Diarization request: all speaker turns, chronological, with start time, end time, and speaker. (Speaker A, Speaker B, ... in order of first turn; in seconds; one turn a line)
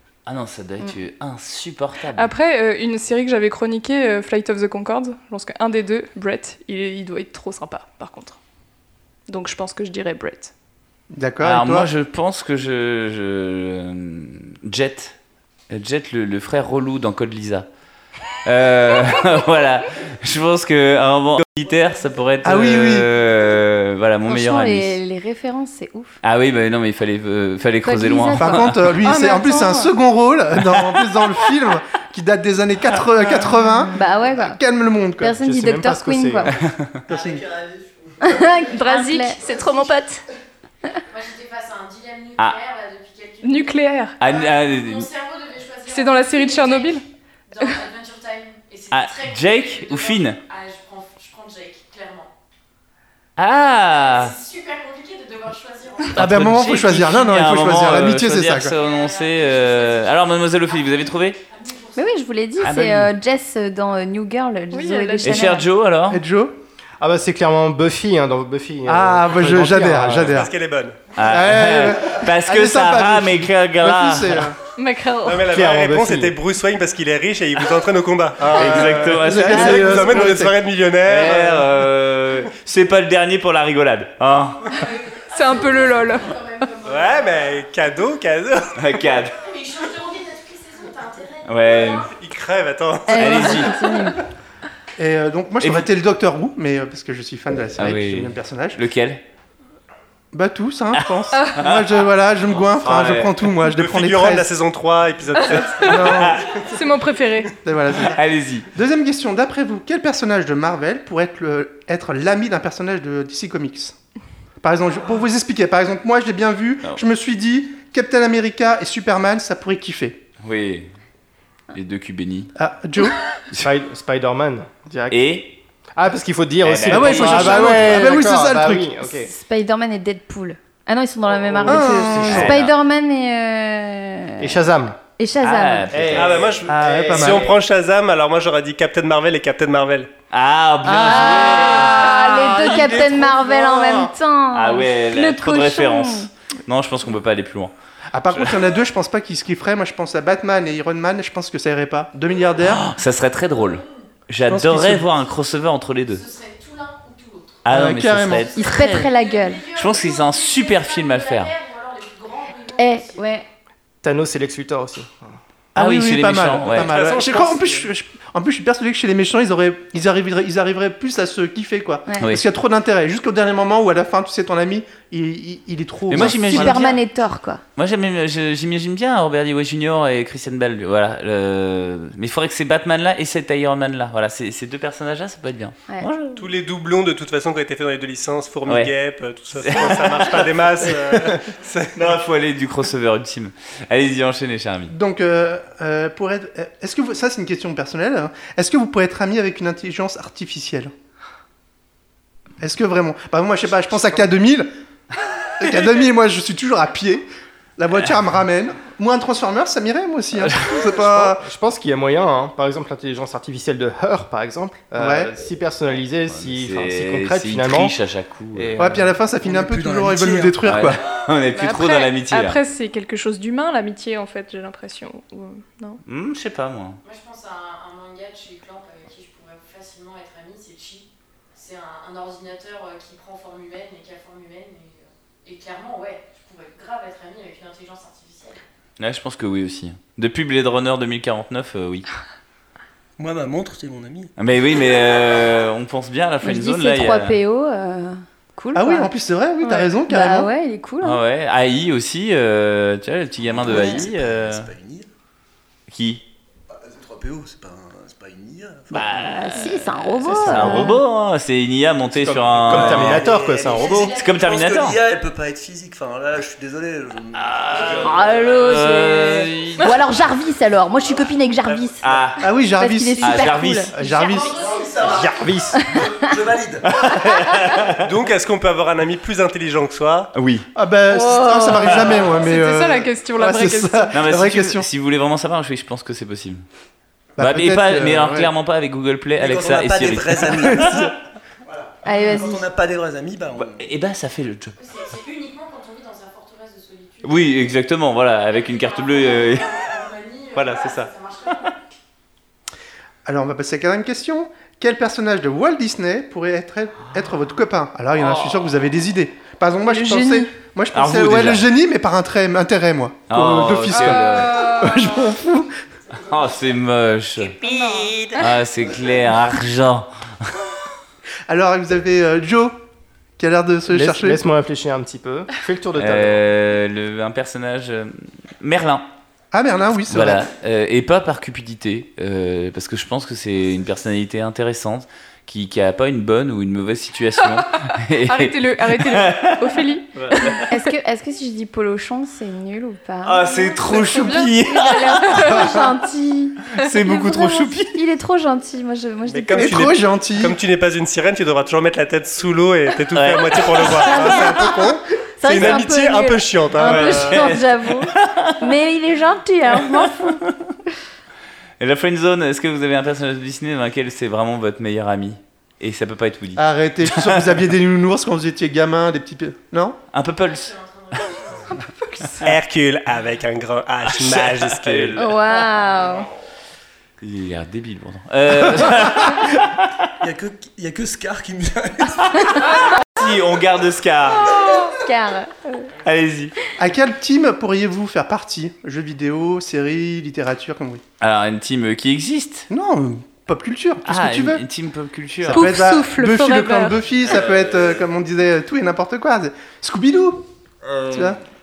Speaker A: 0.2-2.3
Speaker B: 2.1-8.4
Speaker B: 9.3-10.5
Speaker C: 11.1-11.9
Speaker A: 11.4-15.1
Speaker A: 15.7-17.7
Speaker A: 18.4-24.9
Speaker C: 22.4-23.1
Speaker D: 24.3-26.2
Speaker A: 26.2-28.8
Speaker D: 27.8-28.7
Speaker C: 28.4-35.4
Speaker B: 29.0-29.9
Speaker D: 33.9-34.6
Speaker D: 35.2-36.5
Speaker E: 35.4-36.5
Speaker A: 36.5-37.0
Speaker C: 37.1-37.4
Speaker F: 37.1-37.4
Speaker D: 38.2-40.2
Speaker B: 38.8-40.1
Speaker G: 41.1-52.3
Speaker B: 43.4-44.2
Speaker A: 44.2-45.1
Speaker B: 45.9-47.0
Speaker A: 48.9-50.4
Speaker A: 53.4-54.3
Speaker G: 53.9-56.1
Speaker A: 56.1-61.4
Speaker C: 56.1-58.7
Speaker G: 58.7-62.2
Speaker D: 62.0-65.7
Speaker A: 62.6-63.1
Speaker B: 64.7-65.5
Speaker A: 65.2-66.2
Speaker C: 66.1-66.5
Speaker E: 67.0-70.4
Speaker C: 68.9-70.5
Speaker H: 70.3-71.0
Speaker A: 71.1-74.5
Speaker C: 71.2-74.6
Speaker B: 74.8-75.4
Speaker H: 75.2-81.7
Speaker E: 75.4-76.4
Speaker A: 78.4-80.2
Speaker C: 78.7-80.6
Speaker D: 80.0-80.2
Speaker A: 81.0-84.7
Speaker G: 84.7-87.6
Speaker B: 85.3-86.4
Speaker H: 86.8-88.8
Speaker A: 88.7-89.3
Speaker G: 89.4-92.1
Speaker A: 91.5-92.1
Speaker H: 92.2-93.9
Speaker D: 93.1-94.2
Speaker A: 93.1-93.7
Speaker C: 95.0-98.8
Speaker A: 95.6-95.9
Speaker A: 97.8-99.2
Speaker C: 100.3-104.5
Speaker A: 101.0-101.8
Speaker A: 102.5-103.5
Speaker H: 103.6-106.6
Speaker C: 105.8-106.5
Speaker B: 106.6-107.5
Speaker C: 107.6-114.0
Speaker A: 108.1-108.7
Speaker C: 114.6-120.2
Speaker A: 120.4-120.9
Speaker A: 121.7-122.5
Speaker C: 122.5-123.2
Speaker E: 123.6-125.4
Speaker A: 125.1-125.5
Speaker E: 126.0-129.3
Speaker A: 126.6-128.2
Speaker C: 126.9-129.1
Speaker D: 129.2-134.5
Speaker E: 131.2-132.5
Speaker C: 131.6-132.5
Speaker A: 132.2-132.7
Speaker E: 134.4-135.0
Speaker D: 135.2-136.0
Speaker A: 135.4-136.6
Speaker E: 135.9-137.5
Speaker H: 136.1-140.1
Speaker C: 136.7-137.5
Speaker A: 140.3-142.2
Speaker C: 140.9-141.2
Speaker D: 140.9-146.3
Speaker C: 141.9-144.0
Speaker A: 144.5-147.7
Speaker C: 148.1-152.8
Speaker A: 152.7-156.2
Speaker G: 153.6-154.0
Speaker C: 154.4-155.1
Speaker G: 156.1-157.6
Speaker A: 157.6-159.1
Speaker C: 157.7-158.5
Speaker D: 158.5-159.7
Speaker G: 158.7-163.2
Speaker A: 159.8-161.5
Speaker D: 162.8-163.4
Speaker E: 164.0-165.4
Speaker C: 165.7-176.9
Speaker A: 165.8-166.9
Speaker H: 166.7-167.9
Speaker A: 176.1-177.0
Speaker D: 176.2-177.6
Speaker A: 177.8-186.4
Speaker H: 186.4-191.9
Speaker A: 188.7-188.9
Speaker A: 189.6-190.3
Speaker A: 191.9-194.9
Speaker C: 194.9-200.9
Speaker C: 202.6-204.7
Speaker C: 205.6-207.2
Speaker C: 207.8-211.4
Speaker E: 210.9-217.9
Speaker C: 214.9-215.3
Speaker A: 216.2-218.8
Speaker E: 218.5-219.1
Speaker C: 218.8-221.0
Speaker F: 219.4-220.6
Speaker A: 220.6-222.6
Speaker B: 221.6-226.0
Speaker A: 226.1-227.0
Speaker G: 227.0-238.6
Speaker A: 239.0-242.1
Speaker F: 243.2-244.3
Speaker A: 244.4-247.3
Speaker D: 246.4-249.1
Speaker C: 248.7-250.5
Speaker D: 249.6-251.2
Speaker A: 251.0-254.7
Speaker F: 253.4-255.1
Speaker D: 253.7-254.1
Speaker A: 255.9-256.2
Speaker F: 256.7-259.1
Speaker A: 258.9-263.2
Speaker D: 259.1-261.0
Speaker C: 262.2-263.0
Speaker E: 262.6-264.1
Speaker F: 262.8-268.8
Speaker G: 263.5-264.4
Speaker A: 264.1-265.0
Speaker A: 267.3-269.9
Speaker D: 267.9-272.0
Speaker A: 272.0-272.4
Speaker C: 272.4-274.6
Speaker D: 272.7-274.3
Speaker A: 273.2-273.9
Speaker G: 274.0-275.4
Speaker F: 274.5-276.9
Speaker E: 275.1-275.9
Speaker D: 275.9-276.3
Speaker A: 276.8-278.0
Speaker H: 278.0-280.3
Speaker A: 280.3-280.7
Speaker C: 280.7-284.9
Speaker D: 281.1-282.2
Speaker B: 281.8-284.1
Speaker A: 284.1-286.6
Speaker C: 287.3-288.5
Speaker A: 287.4-290.9
Speaker F: 289.4-291.1
Speaker F: 291.7-293.8
Speaker D: 292.0-292.7
Speaker A: 293.6-294.7
Speaker G: 294.8-297.7
Speaker A: 297.2-299.8
Speaker G: 298.5-301.7
Speaker A: 300.6-301.1
Speaker C: 303.2-315.7
Speaker B: 309.8-310.5
Speaker A: 310.9-311.6
Speaker A: 313.3-314.7
Speaker B: 313.9-315.2
Speaker A: 316.1-317.6
Speaker B: 317.6-318.1
Speaker A: 318.3-320.1
Speaker C: 321.5-322.7
Speaker C: 323.4-324.4
Speaker E: 323.9-326.4
Speaker A: 326.0-329.1
Speaker C: 329.5-330.4
Speaker A: 330.1-339.6
Speaker B: 338.2-340.9
Speaker A: 340.2-340.6
Speaker D: 340.7-350.0
Speaker A: 343.2-345.7
Speaker B: 344.0-344.5
Speaker B: 345.1-345.7
Speaker A: 346.7-348.0
Speaker H: 349.3-357.5
Speaker C: 349.6-350.6
Speaker A: 353.1-354.4
Speaker D: 353.8-360.4
Speaker A: 356.8-358.5
Speaker A: 360.0-360.5
Speaker A: 361.8-367.4
Speaker C: 366.6-370.0
Speaker A: 370.1-370.7
Speaker G: 370.4-371.8
Speaker H: 372.4-375.2
Speaker A: 374.1-375.4
Speaker D: 375.2-376.3
Speaker A: 377.2-379.9
Speaker F: 380.2-382.8
Speaker A: 383.0-384.5
Speaker D: 384.6-385.9
Speaker A: 386.0-386.5
Speaker C: 386.8-391.0
Speaker A: 391.2-392.7
Speaker C: 392.7-394.6
Speaker A: 394.0-395.7
Speaker C: 395.4-400.4
Speaker B: 395.5-397.0
Speaker C: 401.1-401.4